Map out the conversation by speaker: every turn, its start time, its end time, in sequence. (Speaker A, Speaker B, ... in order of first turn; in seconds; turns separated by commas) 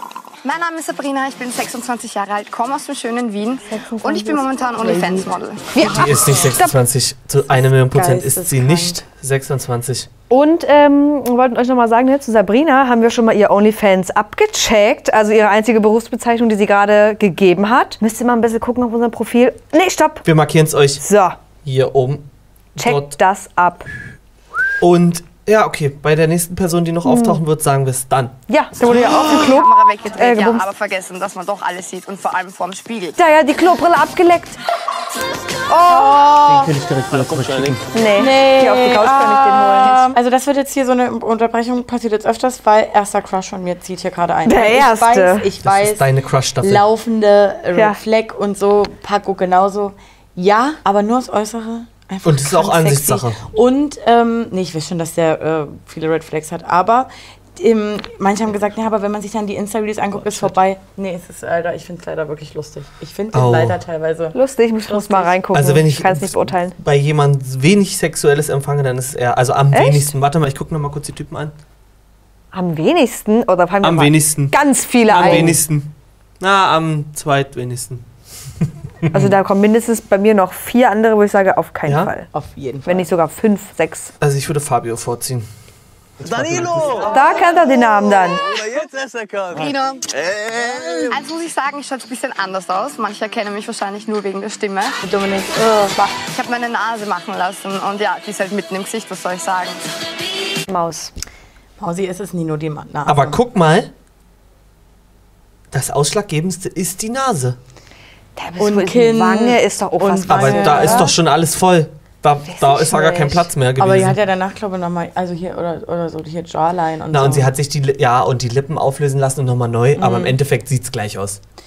Speaker A: 0.4-5.6, Speaker B: 3.7-6.7, Speaker C: 5.8-10.1, Speaker D: 7.9-9.0, Speaker B: 10.3-20.2, Speaker C: 20.2-21.0, Speaker B: 21.0-21.4, Speaker C: 21.6-22.2, Speaker C: 22.8-23.1, Speaker B: 22.8-23.9, Speaker C: 24.8-28.3, Speaker B: 27.1-27.4, Speaker B: 28.5-30.7, Speaker A: 28.9-33.2, Speaker B: 33.2-34.6, Speaker B: 35.7-36.7, Speaker D: 35.9-36.5, Speaker C: 36.4-37.8, Speaker E: 37.1-37.9, Speaker B: 37.9-40.1, Speaker D: 38.1-46.1, Speaker B: 44.5-45.5, Speaker C: 45.6-46.8, Speaker D: 46.6-64.3, Speaker C: 52.2-53.4, Speaker C: 63.3-63.8, Speaker B: 64.3-66.7, Speaker D: 64.9-65.3, Speaker C: 65.5-71.5, Speaker B: 69.7-70.1, Speaker B: 72.5-75.6, Speaker C: 73.8-78.0, Speaker D: 75.2-75.5, Speaker C: 79.0-79.3, Speaker B: 79.1-82.3, Speaker D: 82.3-83.1, Speaker B: 82.8-84.1, Speaker C: 84.2-85.5, Speaker C: 86.2-87.0, Speaker E: 86.2-87.3, Speaker B: 87.1-88.4, Speaker E: 88.0-91.2, Speaker A: 89.5-90.0, Speaker A: 91.1-95.0, Speaker D: 95.0-96.0, Speaker A: 96.3-99.8, Speaker B: 100.7-101.1, Speaker D: 101.8-103.4, Speaker C: 103.1-103.9, Speaker C: 105.7-107.6, Speaker B: 108.4-111.1, Speaker D: 108.6-111.1, Speaker C: 110.3-114.2, Speaker B: 112.5-113.5, Speaker D: 113.8-117.5, Speaker C: 117.1-121.4, Speaker D: 120.0-120.4